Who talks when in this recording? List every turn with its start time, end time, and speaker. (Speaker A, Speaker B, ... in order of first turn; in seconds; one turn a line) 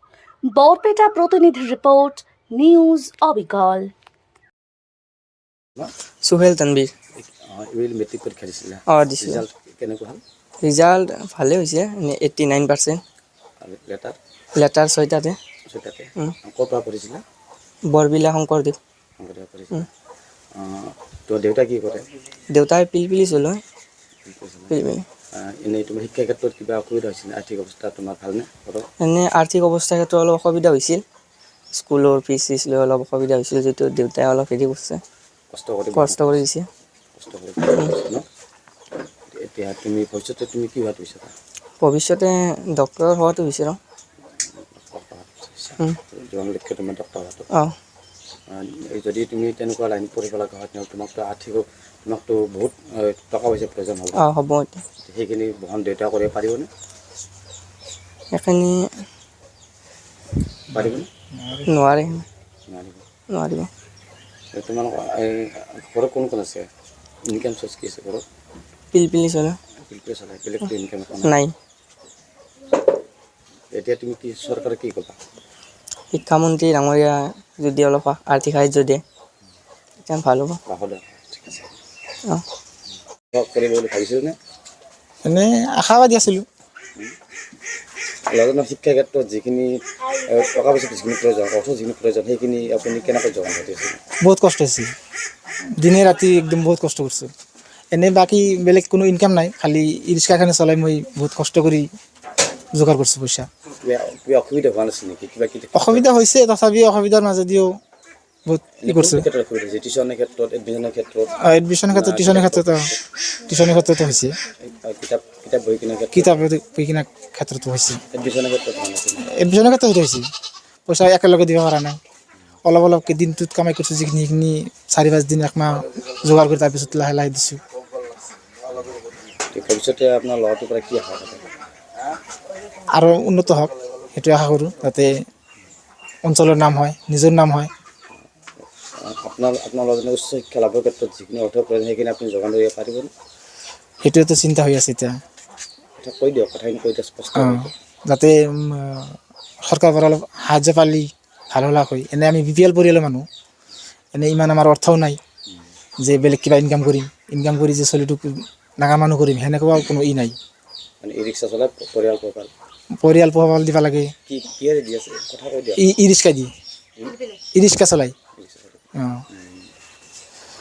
Speaker A: 0.6-3.9
Speaker B: 6.2-6.9
Speaker C: 7.2-10.2
Speaker B: 8.9-9.4
Speaker B: 10.6-13.0
Speaker C: 13.6-14.2
Speaker B: 14.6-15.4
Speaker C: 15.7-17.2
Speaker B: 17.9-18.8
Speaker C: 19.2-19.9
Speaker C: 20.6-22.1
Speaker B: 22.5-23.6
Speaker C: 24.2-28.9
Speaker B: 24.7-25.1
Speaker B: 29.0-31.0
Speaker B: 31.8-35.0
Speaker C: 35.5-36.5
Speaker B: 35.9-36.7
Speaker C: 37.2-38.3
Speaker C: 39.3-41.3
Speaker B: 41.8-43.8
Speaker C: 44.6-47.5
Speaker C: 48.5-54.2
Speaker B: 54.1-54.8
Speaker C: 55.0-56.7
Speaker B: 58.3-58.8
Speaker C: 60.7-61.1
Speaker D: 60.7-61.7
Speaker B: 61.7-62.2
Speaker C: 62.7-63.0
Speaker B: 63.3-63.7
Speaker C: 64.5-66.7
Speaker C: 67.3-68.2
Speaker B: 68.9-69.6
Speaker C: 69.8-71.4
Speaker B: 71.2-71.5
Speaker C: 73.7-75.2
Speaker B: 76.1-79.0
Speaker B: 80.0-80.6
Speaker C: 80.7-81.7
Speaker C: 83.3-84.4
Speaker D: 85.2-86.5
Speaker C: 88.3-94.0
Speaker D: 94.2-94.9
Speaker D: 95.8-97.3
Speaker D: 97.9-101.9
Speaker D: 102.7-103.5
Speaker C: 103.8-106.1
Speaker D: 105.8-107.8
Speaker D: 108.5-109.2
Speaker C: 108.8-111.3
Speaker D: 111.4-112.9
Speaker C: 111.9-113.0
Speaker D: 113.5-114.4
Speaker C: 114.6-116.5
Speaker D: 116.1-118.0
Speaker C: 118.1-119.3
Speaker D: 119.2-120.3
Speaker D: 120.9-122.0
Speaker D: 122.7-127.6
Speaker C: 129.5-131.5
Speaker D: 132.9-135.1
Speaker D: 136.3-137.7
Speaker C: 139.0-143.1
Speaker D: 144.0-145.1
Speaker C: 146.0-147.7
Speaker D: 147.4-153.3
Speaker D: 154.2-155.2
Speaker D: 156.0-160.4
Speaker C: 161.0-162.5
Speaker D: 163.0-164.1
Speaker C: 164.3-165.8
Speaker D: 165.8-166.5
Speaker D: 167.6-168.1
Speaker C: 168.4-169.7
Speaker D: 169.0-169.2